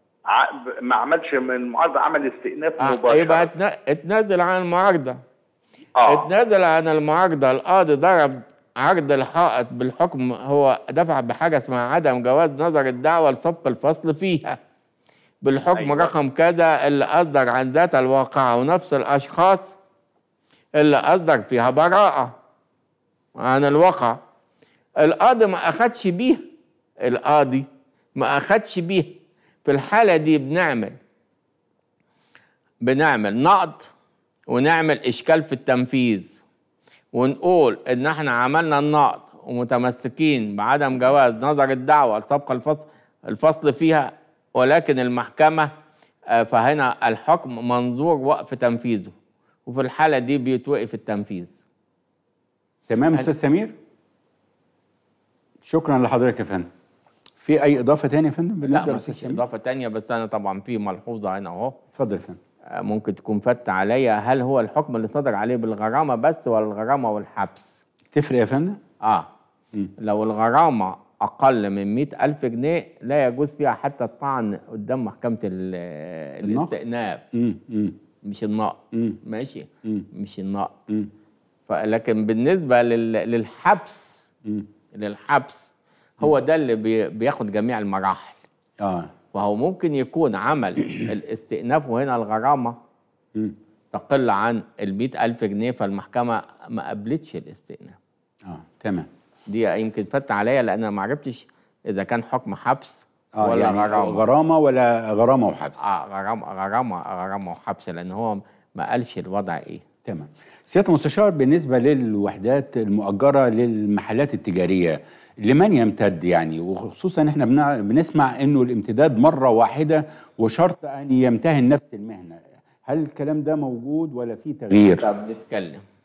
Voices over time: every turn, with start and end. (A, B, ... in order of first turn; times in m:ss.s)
0:00.3-0:03.5 A
0:02.8-0:05.2 B
0:06.0-0:06.3 A
0:06.1-0:14.6 B
0:15.4-0:19.7 B
0:15.7-0:16.1 A
0:20.8-0:22.3 B
0:23.4-0:24.2 B
0:25.0-0:26.4 B
0:27.0-0:27.7 B
0:28.2-0:29.1 B
0:29.6-0:31.0 B
0:32.8-0:33.9 B
0:34.5-0:36.3 B
0:37.1-0:45.7 B
0:46.3-0:49.1 B
0:49.7-0:51.5 B
0:52.9-0:53.8 C
0:55.6-0:56.7 C
0:57.4-0:59.4 C
0:58.7-1:01.8 B
1:02.0-1:02.4 C
1:02.8-1:07.8 B
1:08.1-1:08.8 C
1:09.0-1:09.3 B
1:10.0-1:17.2 B
1:16.4-1:16.7 C
1:17.3-1:18.0 C
1:18.2-1:20.8 B
1:21.7-1:24.3 B
1:25.0-1:28.4 B
1:28.8-1:29.1 C
1:29.3-1:32.8 B
1:33.9-1:38.0 B
1:38.4-1:39.1 C
1:39.5-1:44.2 B
1:43.4-1:45.8 C
1:45.8-1:49.8 B
1:50.0-2:05.1 C
2:04.7-2:05.8 B